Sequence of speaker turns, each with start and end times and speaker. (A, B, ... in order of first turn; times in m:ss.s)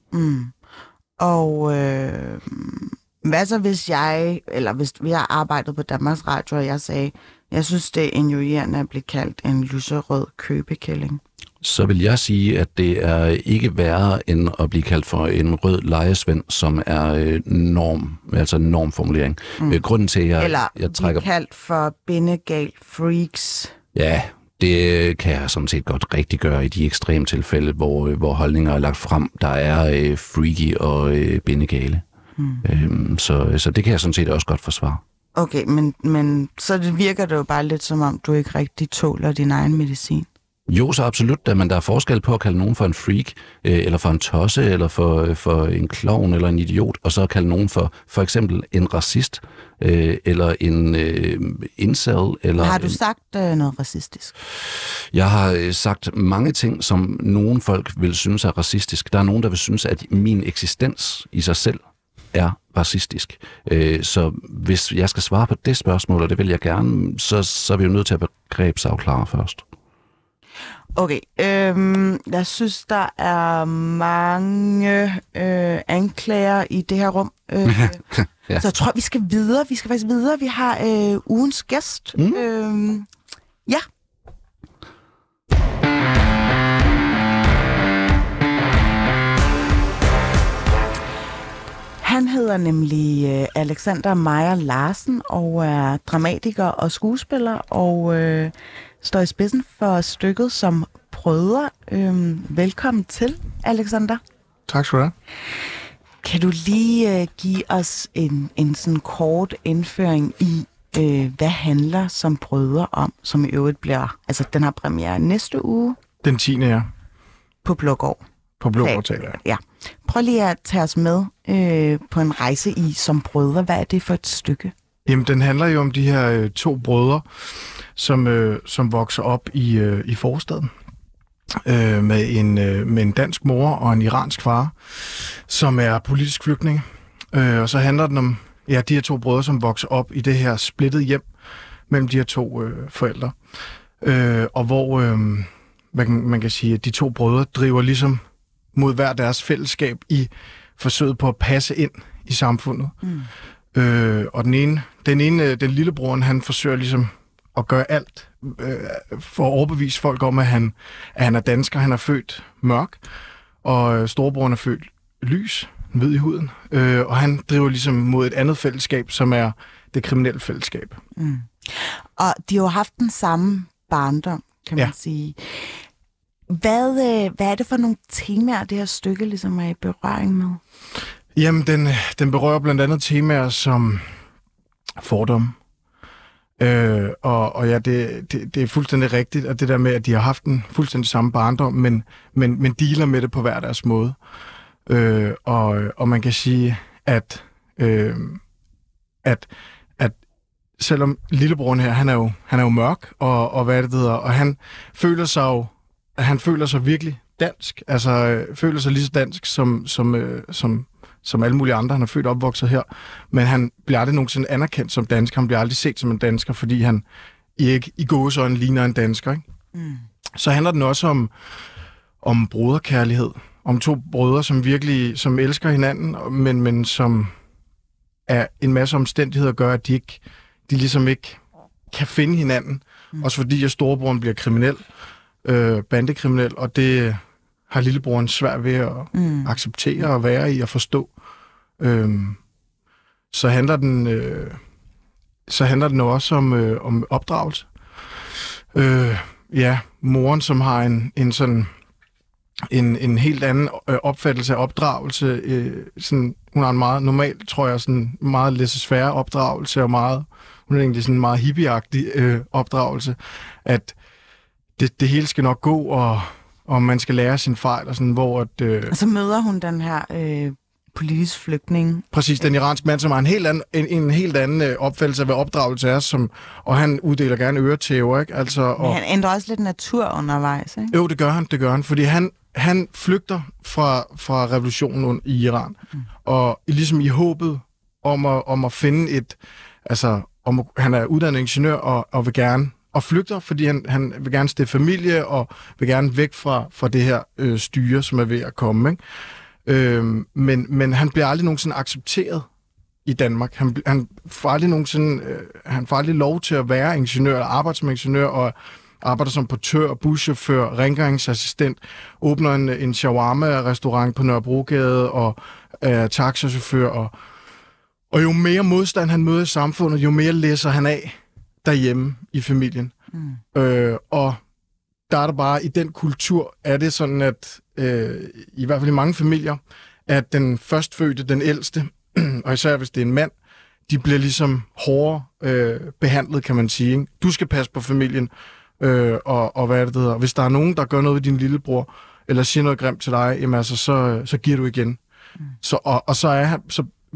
0:00.1-0:00.5 A
0:01.2-0:11.2 A
0:11.6-0:21.2 B
0:20.4-0:23.7 A
0:23.9-0:32.0 B
0:32.4-0:32.8 A
0:32.6-0:35.0 B
0:35.4-0:40.3 A
0:40.7-0:53.0 B
0:52.6-0:54.3 A
0:55.1-1:01.8 B
1:02.3-1:09.6 B
1:10.9-1:18.0 A
1:17.6-1:18.6 B
1:18.6-1:23.1 A
1:22.2-1:22.4 B
1:32.0-1:44.2 A
1:44.7-1:45.1 C
1:46.2-1:56.0 A
1:56.2-1:56.9 C
1:57.6-1:58.2 A
1:58.6-1:59.4 C
1:58.8-2:04.7 A
2:05.0-2:07.2 C
2:07.9-2:10.7 C
2:11.6-2:21.2 C
2:21.9-2:23.3 C
2:24.0-2:28.2 C
2:28.7-2:32.9 C
2:33.0-2:33.3 A
2:33.7-2:43.0 C
2:43.6-2:51.0 C
2:51.2-2:55.8 A
2:56.5-3:00.6 A
3:01.3-3:04.1 C
3:05.0-3:05.5 C
3:06.6-3:14.2 C
3:14.8-3:18.4 C
3:20.8-3:37.0 C
3:37.6-3:39.4 C
3:39.7-3:40.0 A
3:40.4-3:41.3 C
3:42.2-3:47.3 C
3:48.3-3:51.4 C
3:51.9-3:54.8 C
3:55.4-4:01.1 C
3:59.1-3:59.5 A
4:01.8-4:02.4 C
4:03.3-4:04.6 C
4:05.5-4:07.7 C
4:08.7-4:11.7 C
4:12.7-4:23.9 C
4:24.8-4:28.9 C
4:28.9-4:32.0 A
4:32.1-4:39.0 C
4:38.8-4:40.9 A
4:40.9-4:59.0 C
4:59.6-5:02.5 C
5:03.0-5:17.1 C
5:18.1-5:22.9 C
5:23.5-5:24.4 C
5:25.1-5:33.3 C
5:33.9-5:45.0 C
5:45.6-5:46.9 C